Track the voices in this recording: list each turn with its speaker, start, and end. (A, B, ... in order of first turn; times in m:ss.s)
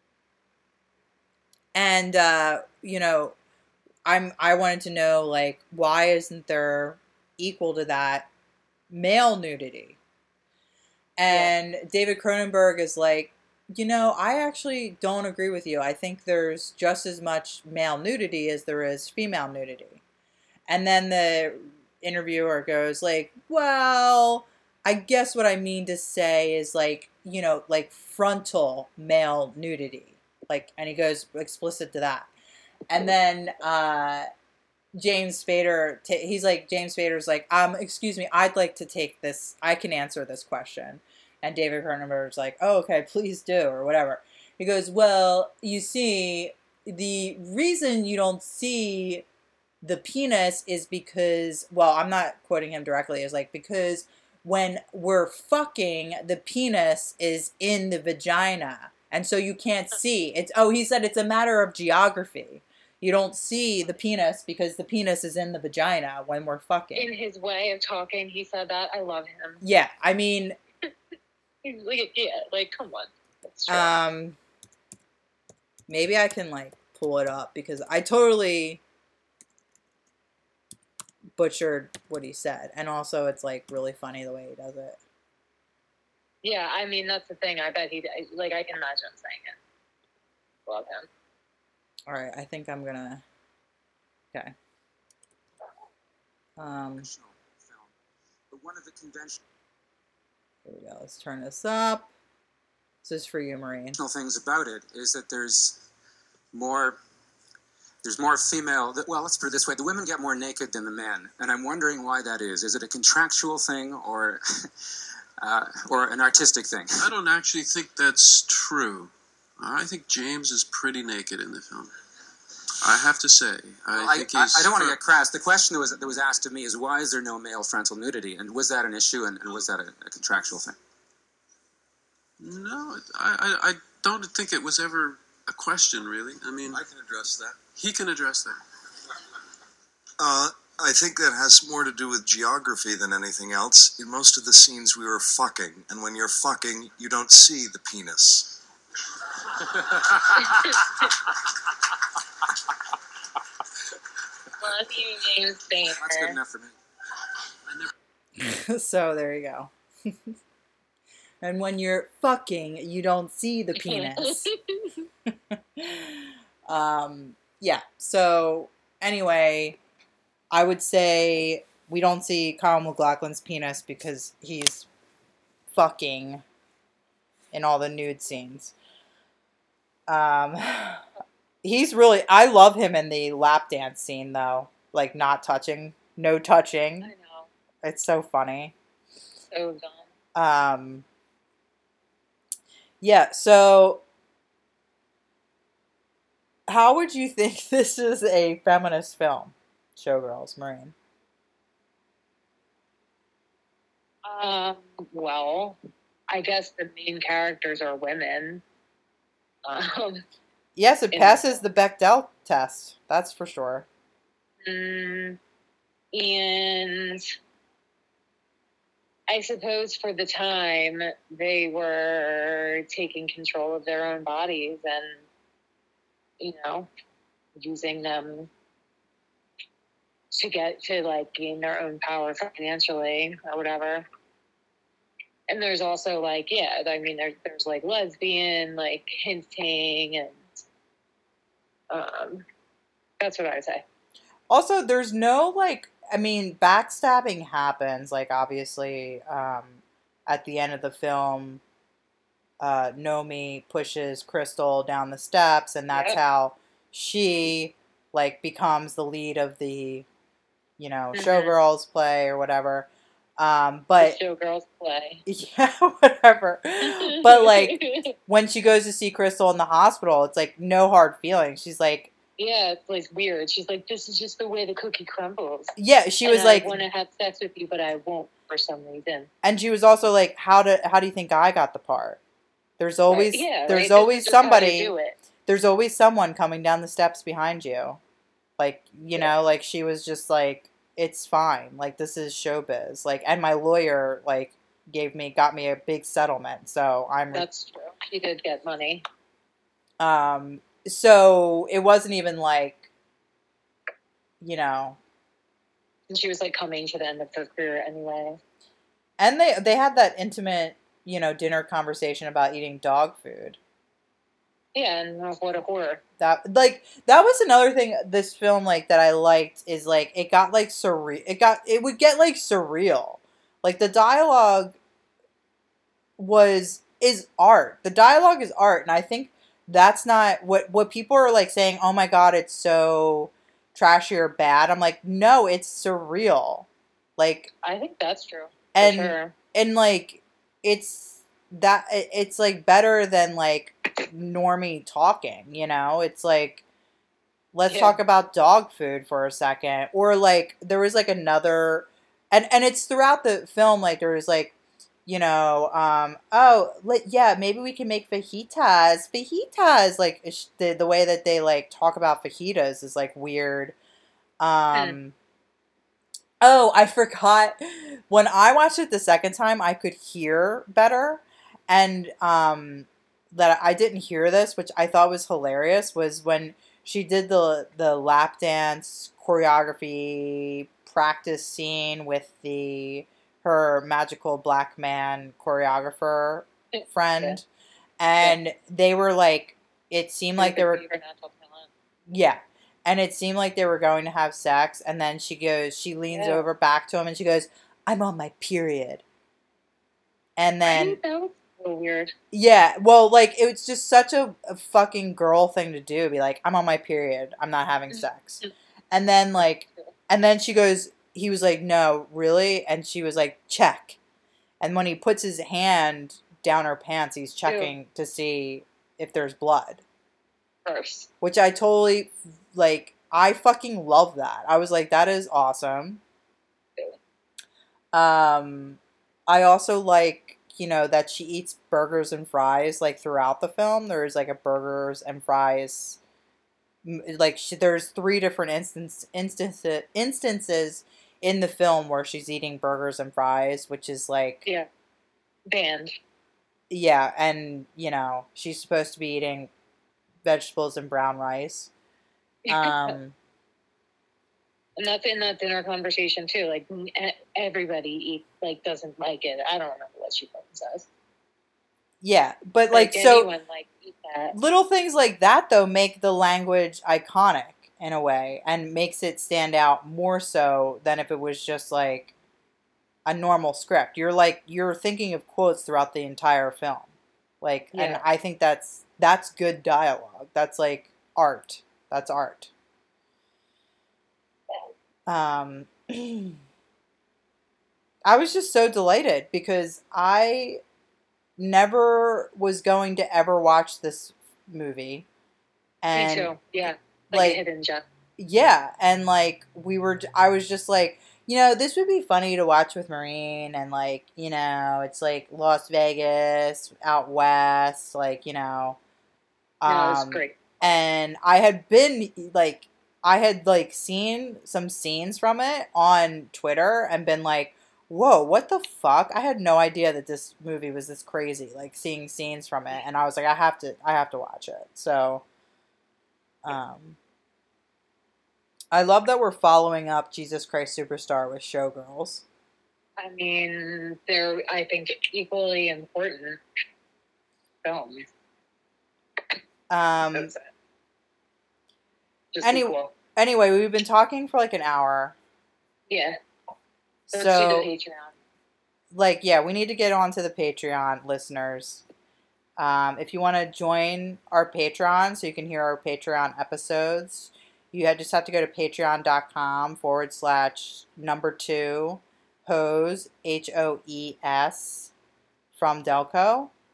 0:01.7-0:03.4 A
0:04.0-0:08.3 A
0:08.9-0:10.0 A
0:11.2-0:20.0 A
0:11.3-0:11.5 B
0:20.7-0:32.3 A
0:32.9-0:34.3 A
0:35.0-0:49.3 A
0:49.8-1:07.1 A
1:07.0-1:09.6 B
1:09.6-1:10.6 A
1:11.6-1:14.0 B
1:13.7-1:14.4 A
1:15.9-1:18.8 A
1:21.4-1:25.0 A
1:26.4-1:29.6 B
1:30.7-1:31.1 B
1:32.1-1:33.2 A
1:36.6-1:37.1 A
1:37.0-1:37.9 C
1:38.5-1:39.4 C
1:40.6-1:42.1 A
1:43.0-1:44.0 A
1:44.0-1:45.8 C
1:46.5-1:47.0 C
1:48.0-1:54.4 C
1:55.4-1:57.1 C
1:57.0-2:01.9 D
2:02.8-2:05.0 D
2:03.9-2:10.8 C
2:12.4-2:16.8 D
2:16.6-2:17.6 E
2:17.7-2:18.6 D
2:20.2-2:28.5 E
2:29.8-2:30.8 C
2:30.4-2:31.0 B
2:34.6-2:36.4 B
2:36.0-2:36.7 C
2:38.4-2:40.4 A
2:41.4-2:44.5 A
2:43.8-2:45.0 B
2:45.3-2:49.8 A
2:50.5-2:54.9 A
2:55.7-2:56.4 A
2:57.5-2:58.7 A
3:00.1-3:01.0 A
3:01.6-3:07.1 A
3:07.0-3:07.5 B
3:07.8-3:08.7 A
3:09.5-3:10.1 B
3:10.4-3:11.0 A
3:13.0-3:14.0 A
3:16.7-3:21.0 A
3:24.2-3:25.8 B
3:26.3-3:28.6 B
3:29.6-3:30.2 B
3:30.8-3:33.9 A
3:31.1-3:31.6 B
3:34.6-3:35.4 B
3:36.1-3:37.3 B
3:39.3-3:45.3 B
3:46.4-3:46.9 B
3:47.6-3:48.5 B
3:50.3-3:54.0 B
3:55.5-4:00.6 B
4:01.9-4:02.4 B
4:03.2-4:03.8 B
4:04.5-4:11.6 A
4:12.6-4:20.0 A
4:15.9-4:16.2 B
4:20.8-4:24.2 A
4:21.1-4:21.6 B
4:24.0-4:25.2 B
4:25.3-4:32.1 A
4:26.8-4:28.2 B
4:32.4-4:39.3 B
4:35.8-4:36.8 A
4:39.4-4:42.2 A
4:42.8-4:44.9 A
4:43.1-4:45.2 B
4:45.4-4:48.0 A
4:48.6-4:57.4 A
4:57.3-4:59.0 B
5:00.0-5:02.9 A
5:04.4-5:05.0 A
5:06.1-5:08.4 B
5:09.2-5:13.6 A
5:14.7-5:16.0 B
5:16.2-5:24.8 A
5:26.2-5:37.5 A
5:37.6-5:39.4 B
5:38.7-5:46.6 A
5:47.5-5:54.5 A
5:47.7-5:48.0 B
5:55.0-6:03.8 A
6:04.4-6:05.1 A
6:04.7-6:05.0 B
6:06.4-6:27.5 A
6:26.7-6:27.4 B
6:28.0-6:30.8 A
6:30.4-6:31.7 B
6:32.1-6:39.0 A
6:36.1-6:36.4 B
6:40.4-6:41.0 A
6:40.7-6:42.1 B
6:42.3-6:54.0 A
6:47.9-6:48.5 B
6:54.6-6:59.8 A
6:57.4-6:57.7 B
7:00.7-7:01.1 B
7:01.2-7:06.0 A
7:07.9-7:16.0 A
7:16.8-7:24.4 A
7:25.5-7:25.9 B
7:26.7-7:29.5 A
7:30.2-7:31.7 A
7:32.5-7:33.0 B
7:32.5-7:33.2 A
7:34.8-7:40.9 B
7:42.0-7:43.3 A
7:42.7-7:44.4 B
7:44.3-7:52.1 A
7:53.0-8:02.5 A
7:57.7-7:58.0 B
8:05.1-8:06.4 A
8:08.0-8:10.6 A
8:11.4-8:15.1 A
8:15.8-8:16.3 A
8:15.9-8:17.8 B
8:17.1-8:17.4 A
8:18.2-8:28.8 A
8:29.6-8:45.2 A
8:29.7-8:30.7 B
8:46.4-8:47.0 A
8:48.7-8:52.2 A
8:53.0-8:56.4 B
8:57.6-8:58.1 B
8:59.7-9:00.3 A
9:00.1-9:00.5 B
9:02.3-9:02.9 B
9:02.4-9:05.2 A
9:05.9-9:06.2 B
9:07.1-9:07.7 A
9:07.1-9:08.1 B
9:08.9-9:11.8 A
9:12.6-9:24.9 A
9:25.5-9:26.5 A